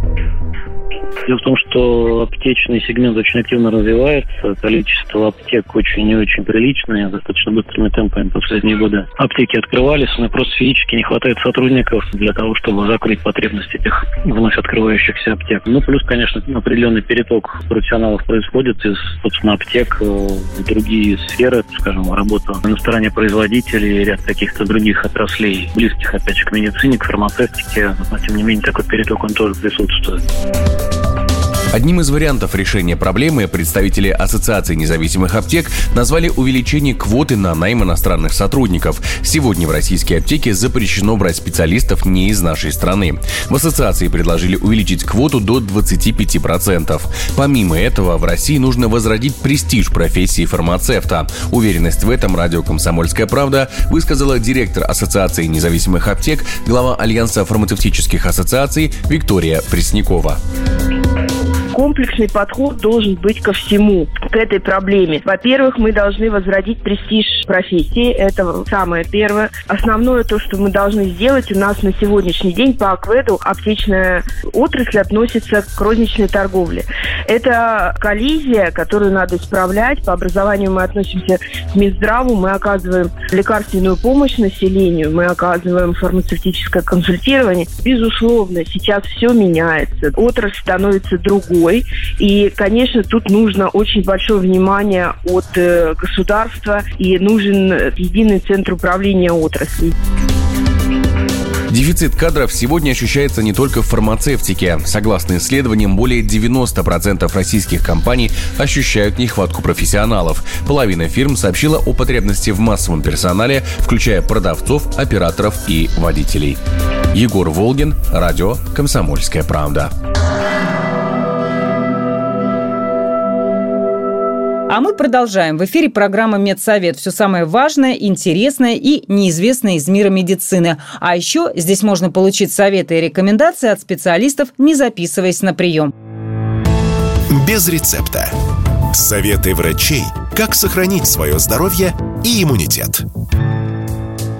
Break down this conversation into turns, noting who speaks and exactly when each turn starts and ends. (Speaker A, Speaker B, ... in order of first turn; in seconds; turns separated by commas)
Speaker A: 1.3-30.2, Speaker B: 31.7-60.4, Speaker C: 61.7-99.9, Speaker B: 101.7-116.6, Speaker B: 117.1-119.9, Speaker D: 124.7-135.9, Speaker E: 137.3-138.3, Speaker E: 138.9-143.1